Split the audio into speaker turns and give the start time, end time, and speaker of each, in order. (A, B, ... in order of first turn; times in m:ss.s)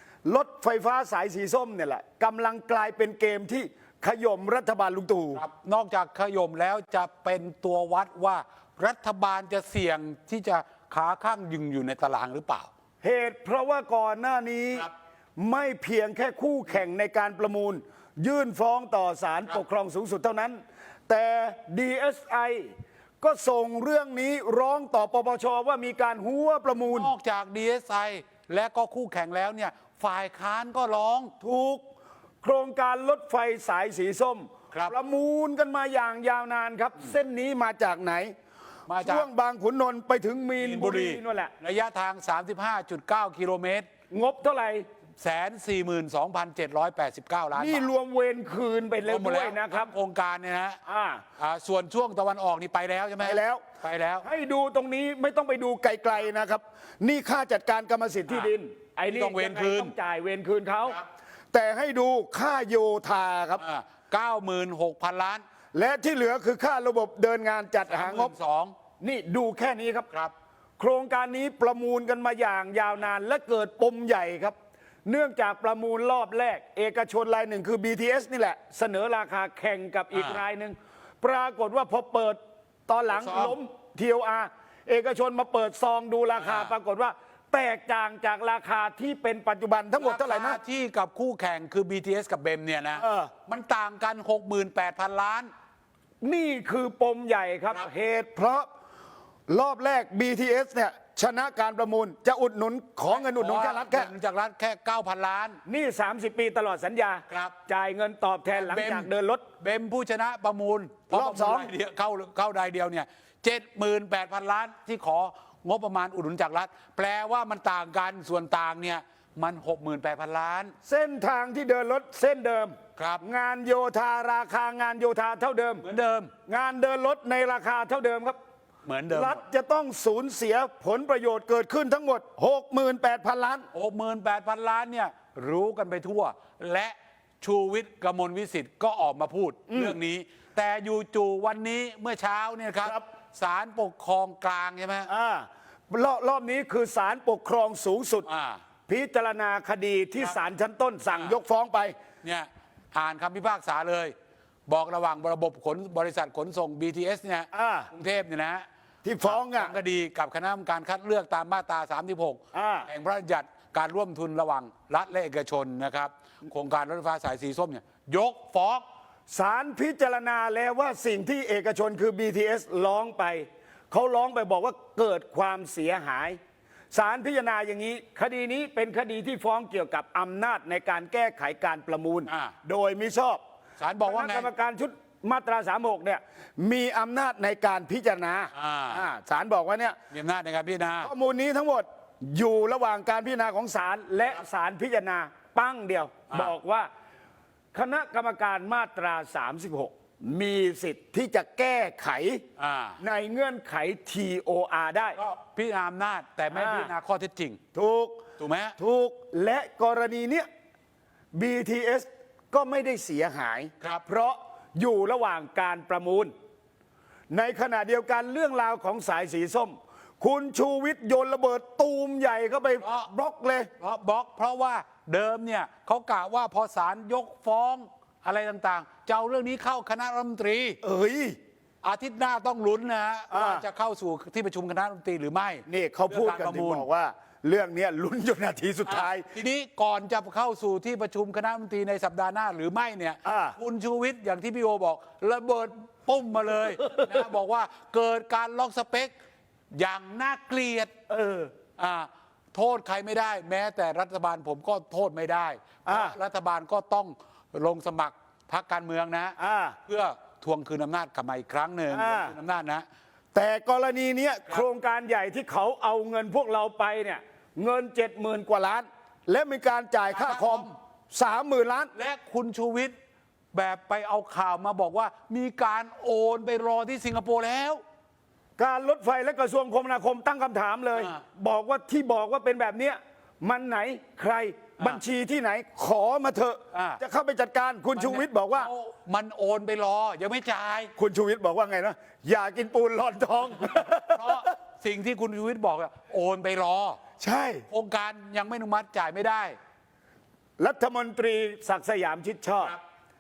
0:00.2-0:05.4 A
0:05.3-0:12.7 B
0:13.0-0:27.1 A
0:26.9-0:31.3 B
0:31.4-0:31.8 A
0:32.4-0:38.3 A
0:38.9-0:39.3 B
0:39.0-0:41.5 A
0:40.6-0:43.9 B
0:44.1-0:44.9 A
0:45.2-0:47.9 B
0:47.6-0:49.9 A
0:49.1-0:50.8 B
0:50.9-0:51.2 A
0:51.4-0:54.2 B
0:53.2-0:53.6 A
0:54.2-1:01.0 A
0:59.1-0:59.9 B
1:01.5-1:03.6 A
1:03.6-1:05.4 B
1:05.7-1:08.3 A
1:07.9-1:08.7 B
1:09.0-1:10.1 A
1:10.8-1:14.6 A
1:15.1-1:30.6 A
1:20.1-1:20.4 B
1:23.1-1:23.6 B
1:26.3-1:26.8 B
1:30.0-1:35.5 B
1:33.0-1:33.3 A
1:36.2-1:38.7 A
1:39.5-1:44.1 A
1:43.1-1:45.6 B
1:45.7-1:49.4 A
1:47.3-1:47.6 B
1:48.5-1:49.1 B
1:49.6-2:00.7 B
1:51.1-1:51.7 A
2:00.8-2:05.8 A
2:03.0-2:03.2 B
2:05.8-2:06.3 B
2:06.5-2:08.4 A
2:08.9-2:09.4 B
2:09.1-2:13.7 A
2:13.7-2:25.1 B
2:19.7-2:20.0 A
2:25.1-2:28.3 A
2:28.2-2:28.6 B
2:28.9-2:32.0 A
2:31.1-2:31.4 B
2:32.2-2:34.1 B
2:34.7-2:38.7 B
2:37.5-2:37.9 A
2:39.0-2:39.8 A
2:39.2-2:48.8 B
2:42.5-2:42.9 A
2:49.3-2:56.4 A
2:56.9-3:03.4 A
3:02.3-3:02.5 B
3:03.8-3:04.5 B
3:04.0-3:10.0 A
3:08.5-3:09.1 B
3:10.1-3:11.1 B
3:11.0-3:16.9 A
3:17.7-3:22.4 A
3:22.6-3:23.0 B
3:23.0-3:25.2 A
3:25.2-3:27.6 B
3:26.5-3:26.9 A
3:27.8-3:28.2 A
3:28.4-3:28.8 B
3:28.8-3:30.5 A
3:31.3-3:36.3 A
3:37.3-3:43.7 A
3:42.8-3:43.1 B
3:43.8-3:50.8 B
3:50.8-3:51.4 A
3:51.8-3:56.9 B
3:53.3-3:53.6 A
3:55.7-3:59.3 A
3:58.9-4:09.1 B
4:03.2-4:03.6 A
4:09.7-4:10.9 B
4:11.1-4:11.5 A
4:11.8-4:19.4 B
4:15.8-4:16.2 A
4:19.4-4:19.8 A
4:19.9-4:22.8 B
4:21.9-4:22.4 A
4:23.3-4:31.9 A
4:30.1-4:30.7 B
4:32.0-4:32.9 B
4:33.5-4:37.8 B
4:38.6-4:48.7 A
4:41.0-4:41.2 B
4:46.7-4:47.0 B
4:48.0-4:50.9 B
4:51.0-4:54.4 A
4:54.1-4:57.0 B
4:57.2-4:57.6 A
4:57.7-4:59.6 B
5:00.6-5:02.8 A